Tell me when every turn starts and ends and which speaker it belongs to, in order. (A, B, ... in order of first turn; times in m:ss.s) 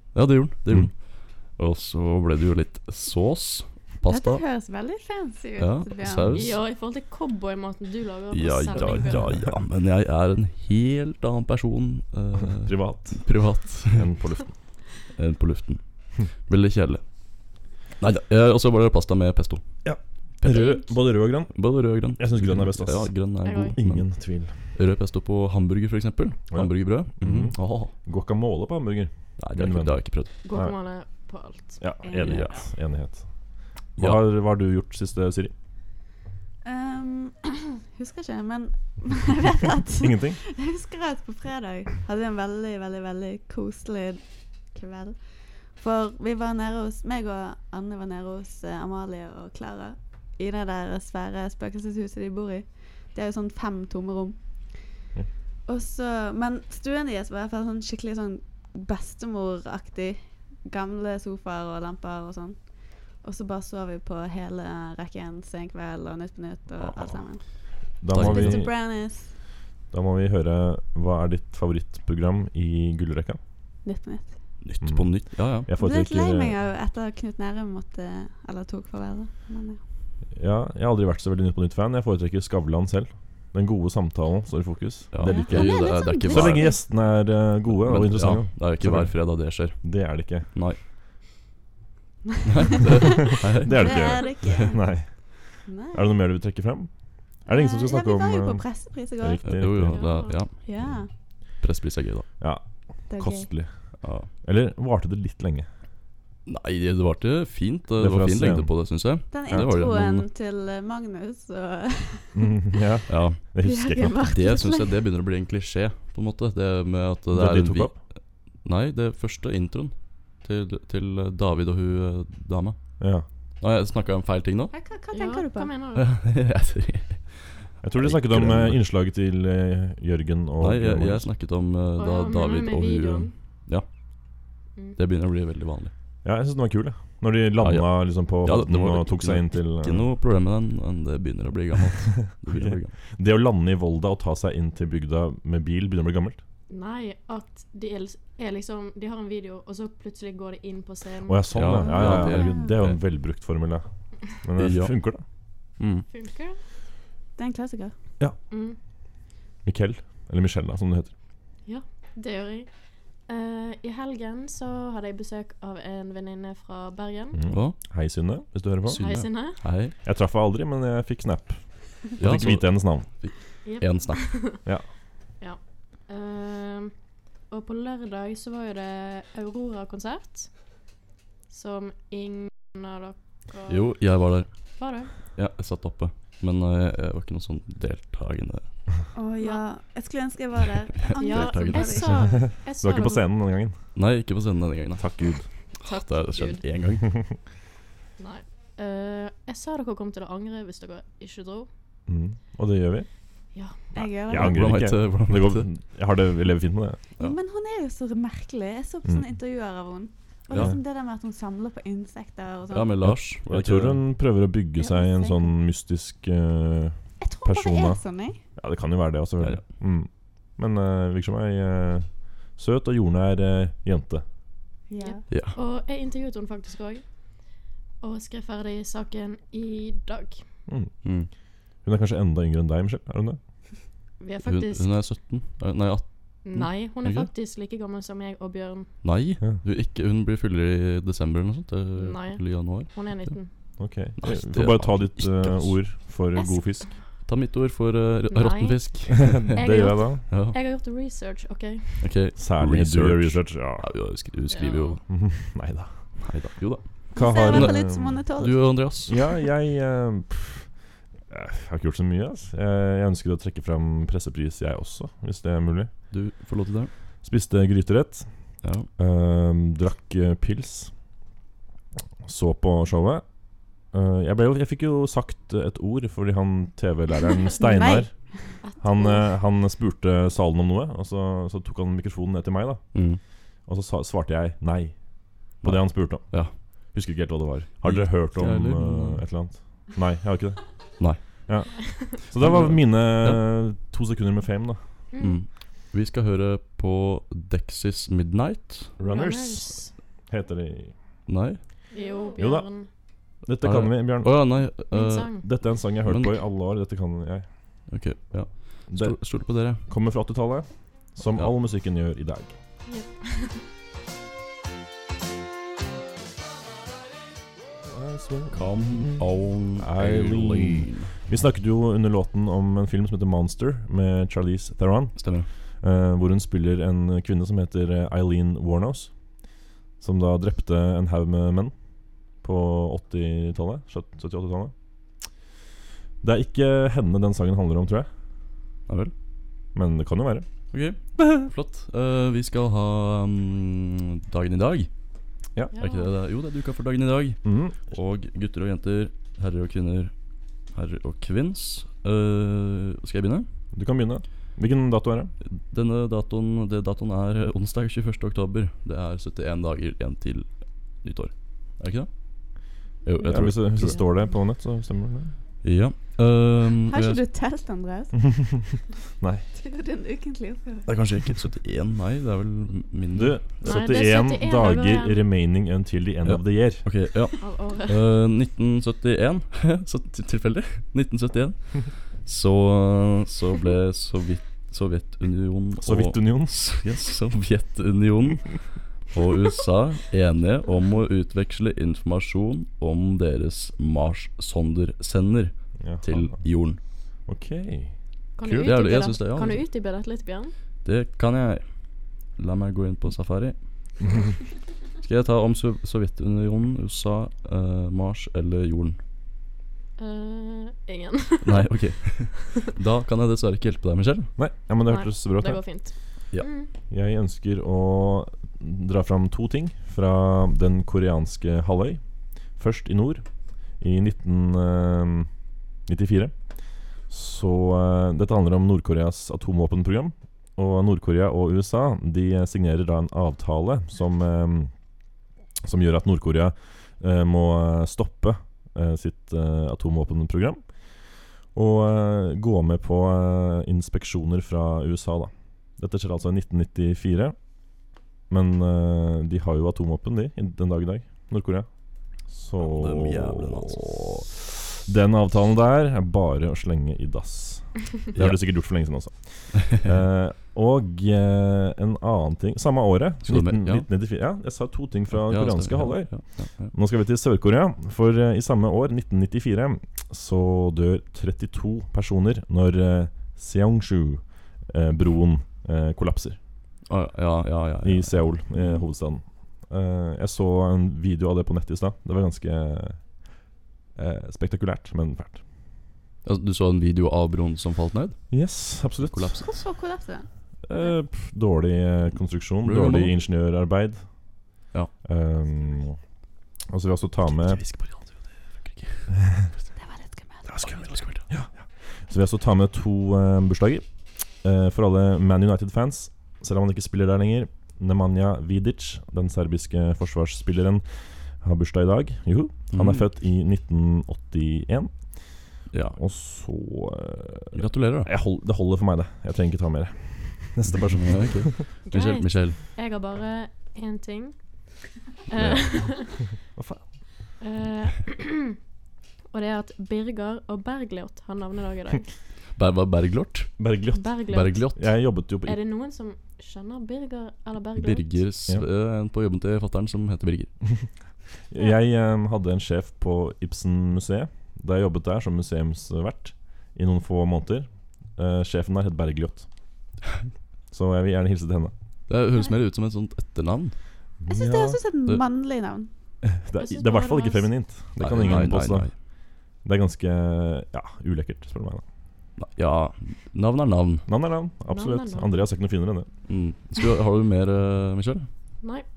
0:00.1-0:04.4 A
0:04.0-0:06.4 B
0:05.6-0:06.6 A
0:06.3-0:09.3 C
0:08.3-0:14.1 A
0:12.5-0:13.3 D
0:13.9-0:14.5 D
0:15.0-0:17.0 A
0:18.0-0:19.6 A
0:19.8-0:21.6 D
0:20.4-0:20.8 A
0:20.5-0:20.9 C
0:21.5-0:27.9 A
0:22.1-0:23.2 D
0:23.4-0:23.8 C
0:23.7-0:24.6 D
0:26.5-0:30.7 D
0:29.4-0:30.3 A
0:30.4-0:31.8 C
0:31.8-0:33.2 D
0:32.0-0:32.4 B
0:32.2-0:32.6 A
0:34.0-0:35.5 D
0:36.6-0:54.9 B
0:40.0-0:40.4 D
0:55.6-1:09.3 B
1:06.8-1:08.7 A
1:08.0-1:08.7 D
1:09.9-1:13.4 D
1:13.8-1:14.4 B
1:14.6-1:15.7 A
1:14.8-1:16.5 D
1:15.8-1:19.8 B
1:20.3-1:30.5 D
1:25.1-1:26.8 A
1:25.2-1:26.8 B
1:27.7-1:30.8 A
1:32.4-1:34.5 A
1:32.7-1:34.8 B
1:33.6-1:41.0 D
1:35.6-1:36.1 B
1:37.4-1:39.6 B
1:39.4-1:40.9 A
1:39.9-1:40.4 C
1:40.5-1:41.1 B
1:41.6-1:42.3 A
1:42.4-1:45.7 D
1:43.1-1:43.5 B
1:44.0-1:44.3 A
1:46.4-1:50.2 A
1:48.0-1:48.7 D
1:49.3-1:52.6 B
1:52.3-1:54.2 D
1:53.1-1:53.4 A
1:53.6-1:55.0 B
1:54.2-2:02.9 A
1:57.3-1:58.0 D
2:03.0-2:03.2 D
2:03.6-2:04.7 A
2:04.7-2:05.7 B
2:05.1-2:06.1 C
2:05.9-2:08.8 A
2:07.8-2:11.3 D
2:10.6-2:13.8 A
2:12.0-2:13.3 C
2:15.0-2:15.9 A
2:16.2-2:20.0 D
2:17.6-2:22.9 A
2:22.3-2:26.4 D
2:26.7-2:31.5 C
2:31.2-2:35.2 D
2:31.5-2:33.0 A
2:31.8-2:32.8 B
2:32.1-2:32.4 C
2:34.6-2:34.9 A
2:35.8-2:36.0 A
2:36.1-2:36.6 C
2:37.4-2:37.9 B
2:38.5-2:38.8 C
2:39.6-2:41.1 D
2:41.6-2:47.4 C
2:47.3-2:49.0 D
2:47.5-2:47.8 A
2:48.8-2:49.9 A
2:49.0-2:49.6 C
2:49.9-2:53.1 D
2:52.2-2:54.4 A
2:53.6-2:54.6 C
2:55.4-2:56.9 C
2:57.5-3:00.5 C
3:01.5-3:03.9 C
3:03.7-3:04.5 A
3:04.8-3:05.1 C
3:05.2-3:08.8 A
3:09.1-3:12.3 B
3:11.0-3:12.3 A
3:11.2-3:13.2 C
3:12.2-3:13.7 D
3:13.9-3:15.1 A
3:15.0-3:15.5 D
3:15.8-3:17.2 A
3:15.8-3:16.6 C
3:18.2-3:21.7 C
3:22.1-3:23.1 D
3:23.9-3:24.7 B
3:24.3-3:27.0 D
3:24.3-3:25.7 A
3:27.2-3:32.9 B
3:30.5-3:30.8 D
3:32.7-3:34.0 A
3:33.0-3:38.0 D
3:34.8-3:35.5 B
3:37.2-3:38.4 B
3:38.5-3:44.2 D
3:44.9-3:45.2 B
3:45.0-3:47.0 C
3:45.3-3:45.6 A
3:48.0-3:50.4 C
3:50.7-3:50.9 D
3:51.0-3:51.3 A
3:51.8-3:53.4 D
3:54.2-3:54.9 C
3:54.4-3:57.3 A
3:56.4-3:59.0 C
3:59.0-4:03.1 A
4:02.0-4:03.5 C
4:03.8-4:07.0 D
4:04.2-4:05.8 A
4:07.2-4:09.6 A
4:08.3-4:08.9 C
4:09.3-4:10.3 D
4:09.5-4:12.1 C
4:10.3-4:10.6 A
4:12.0-4:15.0 A
4:12.4-4:13.9 D
4:14.5-4:15.0 C
4:15.1-4:16.0 D
4:16.2-4:19.2 A
4:17.1-4:18.7 B
4:17.2-4:18.2 D
4:19.1-4:20.7 D
4:21.3-4:25.9 D
4:26.1-4:26.9 A
4:27.2-4:28.3 D
4:28.6-4:28.9 A
4:29.0-4:30.9 D
4:32.2-4:33.2 D
4:33.8-4:43.0 D
4:37.6-4:38.5 B
4:38.6-4:39.3 C
4:42.9-4:43.2 A
4:43.6-4:44.9 D
4:45.6-4:46.4 D
4:45.6-4:46.5 A
4:46.9-4:50.6 D
4:47.8-4:49.2 A
4:51.5-4:54.8 D
4:52.4-4:53.4 A
4:55.1-4:55.4 C
4:55.2-4:59.0 A
4:59.0-5:00.9 D
4:59.0-4:59.9 C
5:01.3-5:01.6 A
5:01.9-5:02.9 C
5:02.4-5:02.9 D
5:03.4-5:04.5 D
5:03.6-5:06.4 A
5:04.9-5:05.5 C
5:05.4-5:07.5 D
5:07.9-5:09.8 A
5:08.9-5:09.2 D
5:09.8-5:12.5 D
5:12.9-5:13.6 C
5:17.8-5:29.1 D
5:18.5-5:21.2 A
5:25.2-5:25.5 A
5:30.0-5:31.7 D
5:32.4-5:34.7 D
5:36.2-5:38.1 D
5:38.9-5:39.1 A
5:39.7-5:40.5 D
5:40.7-5:44.9 A
5:45.7-5:46.1 C
5:45.8-5:50.1 A
5:47.4-5:47.8 D
5:50.7-5:53.4 A
5:53.7-5:55.3 D
5:55.5-6:04.0 A
6:03.2-6:05.3 D
6:05.6-6:07.2 A
6:06.9-6:08.4 B
6:09.2-6:09.4 D
6:09.5-6:10.9 B
6:10.8-6:13.8 A
6:13.1-6:16.9 D
6:13.6-6:15.2 C
6:16.2-6:36.8 A
6:17.4-6:18.0 C
6:25.8-6:26.6 D
6:35.8-6:36.4 D
6:37.3-6:37.9 D
6:38.4-6:40.5 C
6:38.4-6:39.6 A
6:40.8-6:41.6 A
6:42.3-6:43.6 A
6:45.0-6:49.0 A
6:50.0-6:51.7 C
6:51.4-6:54.3 A
6:54.4-6:55.8 D
6:54.9-6:56.7 C
6:56.9-7:02.0 D
7:02.5-7:03.2 D
7:03.8-7:05.3 D
7:05.9-7:06.3 D
7:07.1-7:14.7 D
7:15.6-7:20.6 D
7:21.5-7:27.4 D
7:28.3-7:31.7 D
7:32.2-7:56.4 D
7:32.6-7:34.2 A
7:38.1-7:38.7 A
7:43.2-7:43.8 A
7:45.1-7:46.7 A
7:56.8-7:58.8 A
7:57.8-8:03.0 D
8:04.0-8:05.4 D
8:06.2-8:08.4 A
8:08.3-8:09.4 D
8:09.0-8:09.5 A
8:09.4-8:10.3 B
8:10.6-8:14.1 D
8:12.6-8:13.2 A
8:15.0-8:16.0 D
8:16.7-8:17.6 D
8:17.3-8:19.2 A
8:19.8-8:20.9 B
8:20.5-8:30.8 D
8:20.6-8:21.2 A
8:31.4-8:35.2 D
8:32.7-8:33.0 A
8:35.7-8:36.0 A
8:36.0-8:41.6 D
8:37.5-8:38.1 A
8:40.7-8:42.6 A
8:41.9-8:46.3 C
8:45.4-8:47.0 D
8:47.4-8:48.6 C
8:49.3-8:52.1 C
8:52.5-8:53.7 A
8:53.6-8:55.6 D
8:53.9-8:54.7 C
8:54.3-8:54.9 A
8:55.4-8:58.2 C
8:57.8-9:00.5 A
9:01.5-9:09.5 D
9:10.7-9:11.7 D
9:12.1-9:13.8 A
9:14.2-9:14.8 D
9:14.3-9:15.9 B
9:16.2-9:19.0 D
9:16.6-9:17.5 C
9:18.0-9:18.9 A
9:19.6-9:21.8 D
9:22.4-9:24.1 A
9:24.1-9:26.1 D
9:24.7-9:25.4 C
9:26.3-9:28.3 A